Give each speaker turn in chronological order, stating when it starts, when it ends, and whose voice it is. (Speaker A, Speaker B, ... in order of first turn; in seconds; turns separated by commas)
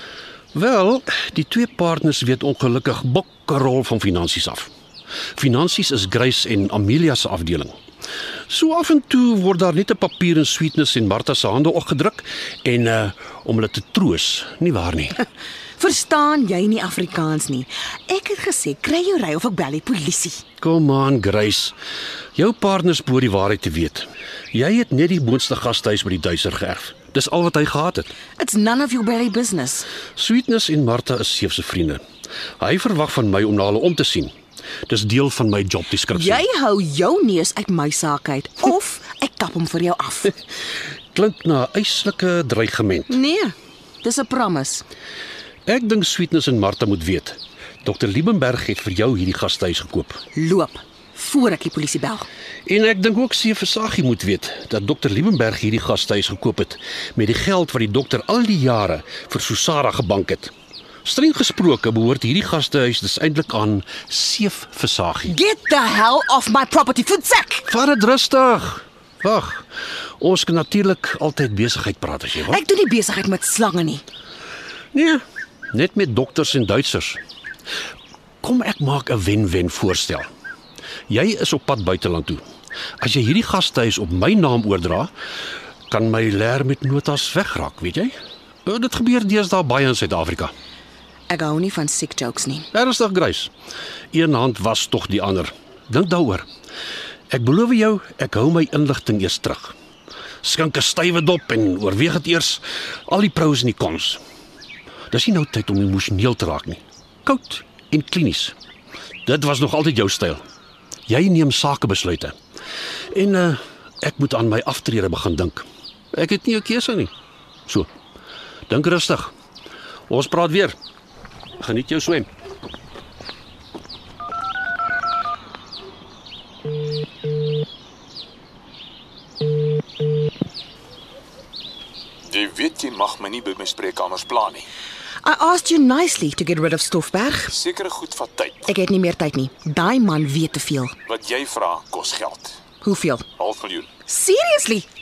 Speaker A: 0.5-4.7, Speaker A: 5.3-7.7, Speaker A: 8.5-15.2, Speaker B: 15.8-20.4, Speaker A: 20.6-21.7, Speaker A: 22.4-28.1, Speaker B: 28.4-29.9, Speaker A: 30.1-32.0, Speaker A: 32.6-34.3, Speaker A: 34.9-36.4, Speaker B: 36.1-40.3, Speaker A: 41.1-43.1, Speaker B: 43.1-44.8, Speaker A: 45.6-50.2, Speaker B: 50.3-52.3, Speaker A: 52.6-60.5, Speaker A: 61.0-65.3, Speaker B: 65.3-67.7, Speaker A: 67.7-69.7, Speaker A: 70.2-72.6, Speaker B: 72.5-74.0, Speaker A: 74.9-77.2, Speaker A: 78.4-80.3, Speaker A: 81.1-82.4, Speaker A: 83.0-85.1, Speaker A: 85.9-88.1, Speaker A: 88.7-90.5, Speaker B: 91.3-92.7, Speaker A: 92.7-93.5, Speaker A: 94.1-96.5, Speaker A: 97.3-99.7, Speaker A: 100.4-104.2, Speaker A: 105.1-108.5, Speaker A: 109.2-110.4, Speaker A: 111.1-112.3, Speaker A: 113.1-117.1, Speaker A: 118.7-119.3, Speaker A: 120.1-120.8, Speaker A: 121.6-122.3, Speaker C: 132.3-134.7, Speaker B: 135.2-137.5, Speaker C: 137.5-138.7, Speaker B: 138.7-141.0, Speaker C: 141.1-142.6, Speaker B: 142.8-143.3, Speaker C: 143.4-143.9, Speaker B: 144.1-144.9